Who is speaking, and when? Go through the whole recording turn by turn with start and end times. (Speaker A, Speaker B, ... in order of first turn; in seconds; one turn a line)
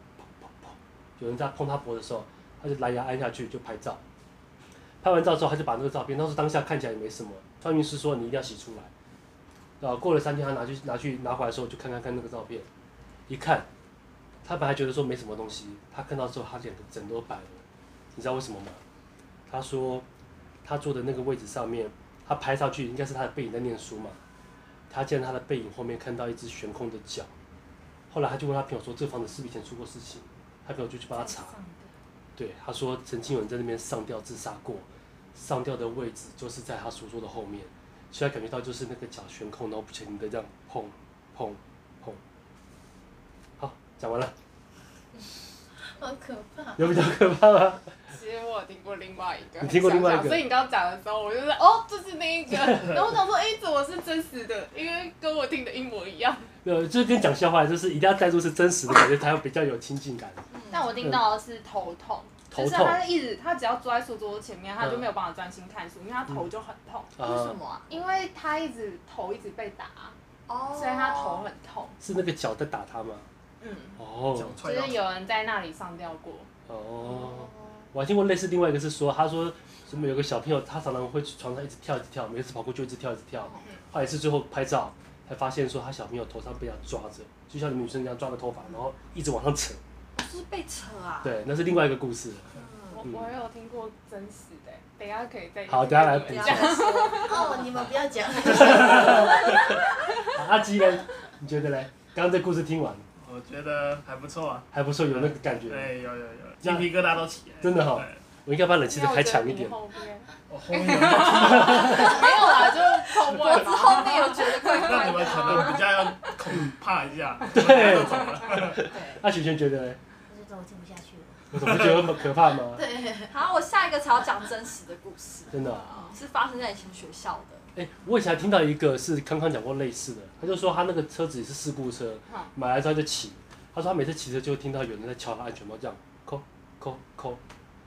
Speaker A: 0.2-4.0
Speaker A: 5.0-8.9
Speaker A: 9.8-12.7
Speaker A: 13.3-13.7
Speaker A: 14.4-17.6
Speaker A: 18.1-18.8
Speaker A: 19.5-20.1
Speaker A: 20.6-24.2
Speaker A: 24.9-27.3
Speaker A: 28.1-31.6
Speaker A: 32.4-42.2
Speaker A: 43.6-44.3
Speaker B: 45.7-47.1
Speaker A: 46.8-47.9
Speaker C: 48.1-56.5
Speaker A: 49.6-50.5
Speaker A: 56.6-60.4
Speaker D: 60.5-61.0
Speaker C: 60.7-67.2
Speaker A: 62.5-63.0
Speaker A: 64.8-65.1
Speaker A: 67.2-67.6
Speaker D: 67.2-67.9
Speaker C: 67.9-70.1
Speaker D: 70.5-71.5
Speaker C: 70.7-72.0
Speaker A: 72.0-73.3
Speaker C: 73.6-74.0
Speaker A: 74.0-74.6
Speaker E: 74.3-75.0
Speaker C: 74.6-76.5
Speaker A: 76.7-89.8
Speaker D: 90.2-91.4
Speaker A: 91.2-92.5
Speaker B: 92.5-92.9
Speaker C: 92.9-97.6
Speaker A: 93.0-93.3
Speaker A: 95.7-97.0
Speaker D: 96.3-97.6
Speaker B: 97.2-99.8
Speaker A: 98.4-99.7
Speaker A: 100.3-103.0
Speaker E: 103.2-108.2
Speaker A: 104.7-105.9
Speaker A: 106.6-106.9
Speaker A: 107.6-109.8
Speaker C: 108.9-116.3
Speaker E: 110.5-112.2
Speaker A: 111.3-112.1
Speaker D: 111.9-112.4
Speaker D: 113.3-115.9
Speaker E: 114.8-118.8
Speaker A: 117.5-120.0
Speaker B: 120.3-123.3
Speaker A: 121.5-122.8
Speaker D: 123.3-127.7
Speaker A: 125.5-125.9
Speaker C: 125.6-126.2
Speaker A: 127.7-137.4